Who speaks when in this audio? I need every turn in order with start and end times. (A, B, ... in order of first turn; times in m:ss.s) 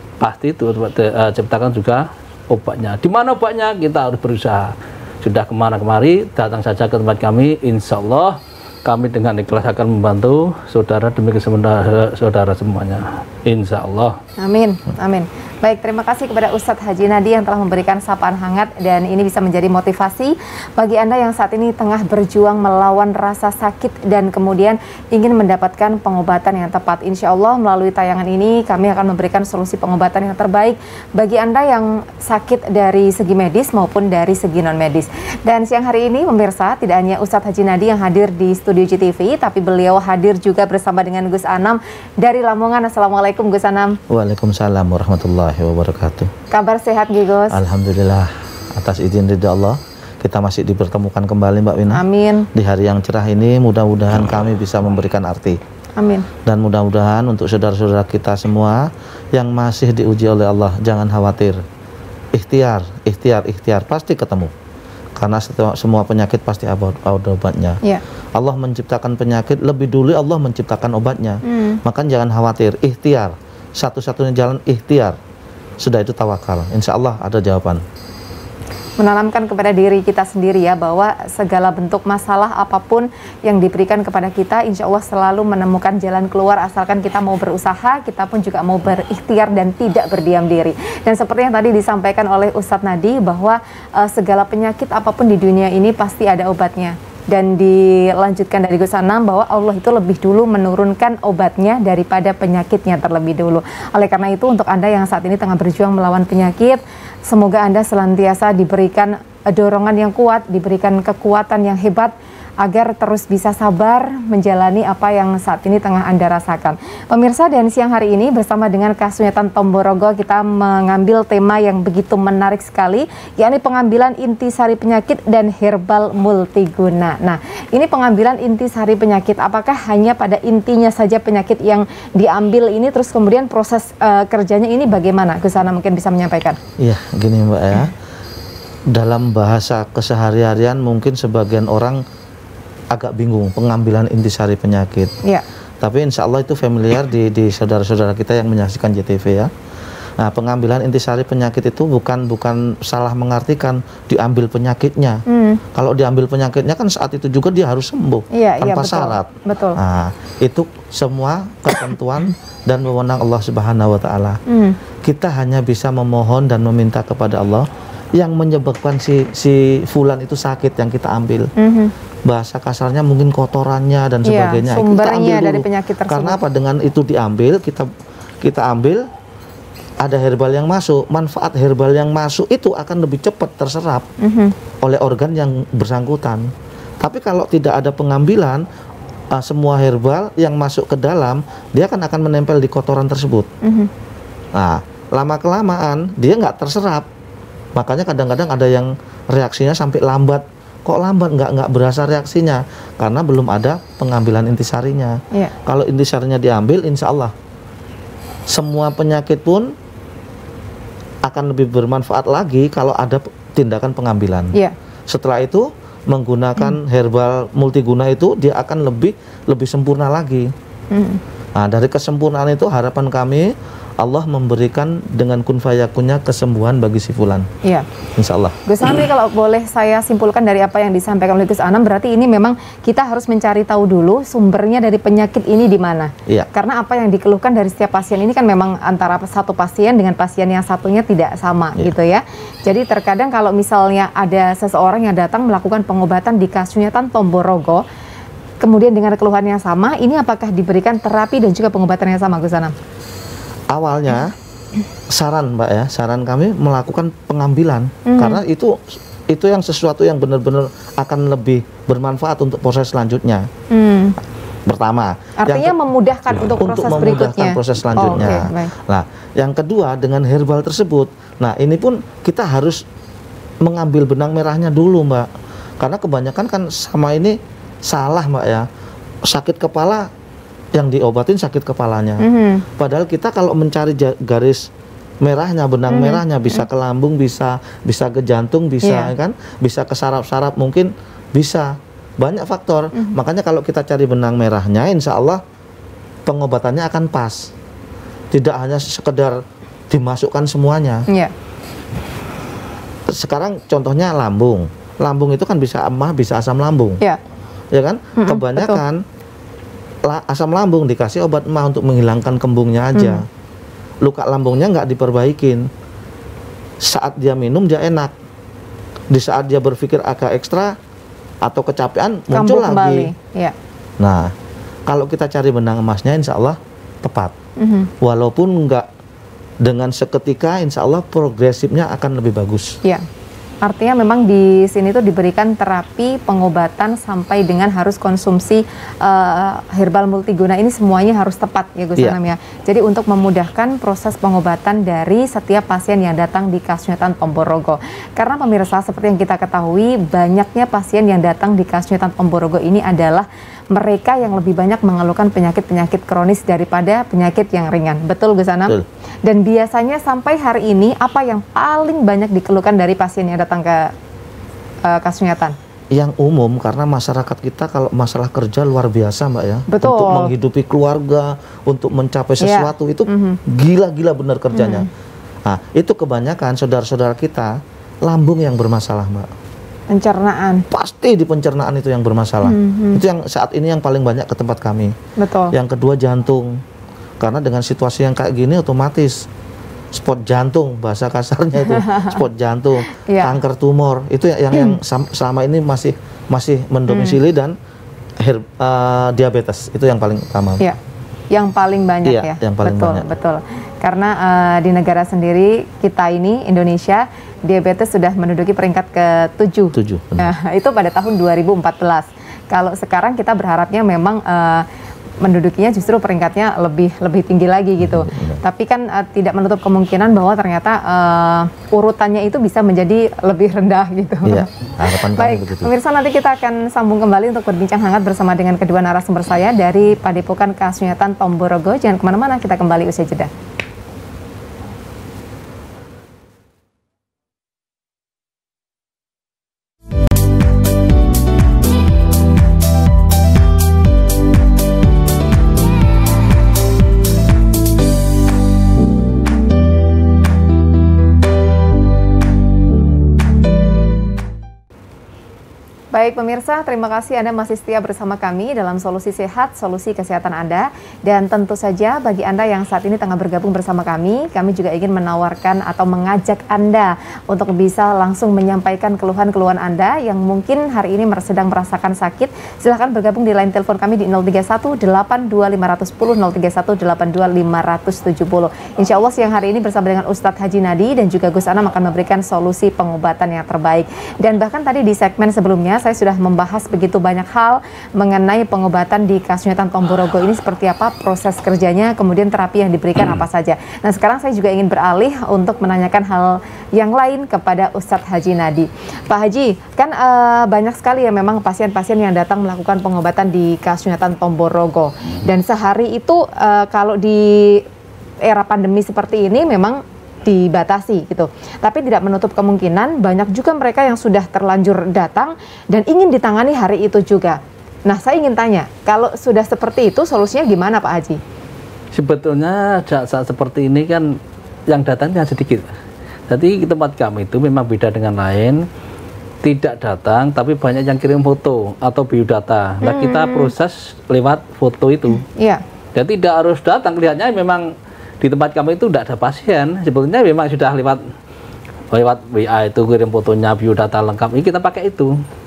0:00.2-0:14.2 A
0:14.4-0:44.0 B
0:44.1-0:46.3 C
0:46.5-0:47.6 B
0:47.5-0:55.6 C
0:51.9-0:52.5 B
0:56.0-0:56.3 B
0:56.4-1:01.6 C
1:02.3-1:04.5 C
1:05.2-1:07.8 C
1:08.4-1:15.2 C
1:11.4-1:11.8 B
1:15.8-1:17.8 C
1:19.0-2:16.6 B
2:16.8-2:17.9 C
2:18.9-2:22.0 C
2:22.9-2:25.1 C
2:25.8-2:29.5 C
2:30.2-2:35.2 C
2:35.3-2:35.6 B
2:35.7-2:44.4 C
2:38.3-2:39.8 B
2:44.5-2:44.8 B
2:45.0-2:51.5 C
2:51.6-2:51.9 B
2:52.3-2:57.9 C
2:54.3-2:56.4 B
2:58.4-2:59.1 C
3:00.0-3:04.1 C
3:04.2-3:04.5 B
3:04.8-3:06.5 C
3:07.0-3:08.6 C
3:09.3-3:13.5 C
3:13.6-3:13.9 B
3:14.5-3:17.1 C
3:17.8-3:27.3 C
3:28.5-3:29.8 C
3:31.2-3:34.6 C
3:35.1-3:40.5 C
3:40.9-3:41.2 B
3:41.6-3:47.5 C
3:48.2-3:48.6 C
3:48.7-4:07.8 B
4:08.6-4:12.7 B
4:13.7-4:14.3 C
4:15.1-4:23.5 C
4:18.1-4:18.4 B
4:23.7-4:24.2 B
4:24.7-4:25.8 C
4:25.4-4:28.7 B
4:26.3-4:32.8 C
4:33.6-4:35.3 C
4:35.8-4:38.7 C
4:39.3-4:40.1 C
4:40.7-4:42.2 C
4:42.2-4:42.6 B
4:42.8-4:44.7 C
4:45.2-4:55.4 C
4:45.9-4:46.6 B
4:48.8-4:49.1 B
4:56.3-4:57.5 C
4:58.3-5:01.0 C
5:03.1-5:07.0 C
5:07.7-5:09.0 C
5:08.2-5:08.8 B
5:10.0-5:13.3 C
5:13.0-5:13.2 B
5:14.0-5:15.7 C
5:16.8-5:18.1 C
5:19.1-5:20.8 C
5:21.4-5:23.1 C
5:22.3-5:23.6 B
5:24.0-5:24.3 C
5:24.9-5:27.3 C
5:27.6-5:27.9 B
5:28.0-5:28.9 C
5:29.6-5:32.8 C
5:33.6-5:58.8 B
5:59.3-6:03.9 B
6:04.8-6:05.6 B
6:05.9-6:14.9 C
6:09.7-6:10.3 B
6:12.4-6:13.4 B
6:14.5-6:14.9 B
6:15.5-6:19.3 C
6:19.9-6:20.6 B
6:20.7-6:25.0 C
6:22.4-6:23.0 B
6:25.2-6:25.5 B
6:25.5-6:26.6 C
6:27.2-6:29.3 C
6:29.9-6:37.6 C
6:31.7-6:32.2 B
6:33.1-6:33.3 B
6:36.9-6:37.2 B
6:38.2-6:40.6 C
6:41.3-6:54.6 B
6:42.0-6:43.0 C
6:49.7-6:50.3 C
6:55.2-7:04.5 B
6:57.8-6:58.4 C
7:04.2-7:05.7 C
7:05.2-7:13.3 B
7:35.9-8:27.6 B
8:28.2-8:41.2 B
8:42.0-8:44.2 A
8:44.7-8:45.7 A
8:46.3-8:48.6 A
8:49.4-8:55.2 A
8:52.8-8:53.5 B
8:55.4-8:55.6 B
8:56.0-8:57.6 A
8:58.2-9:01.0 A
9:01.9-9:05.1 A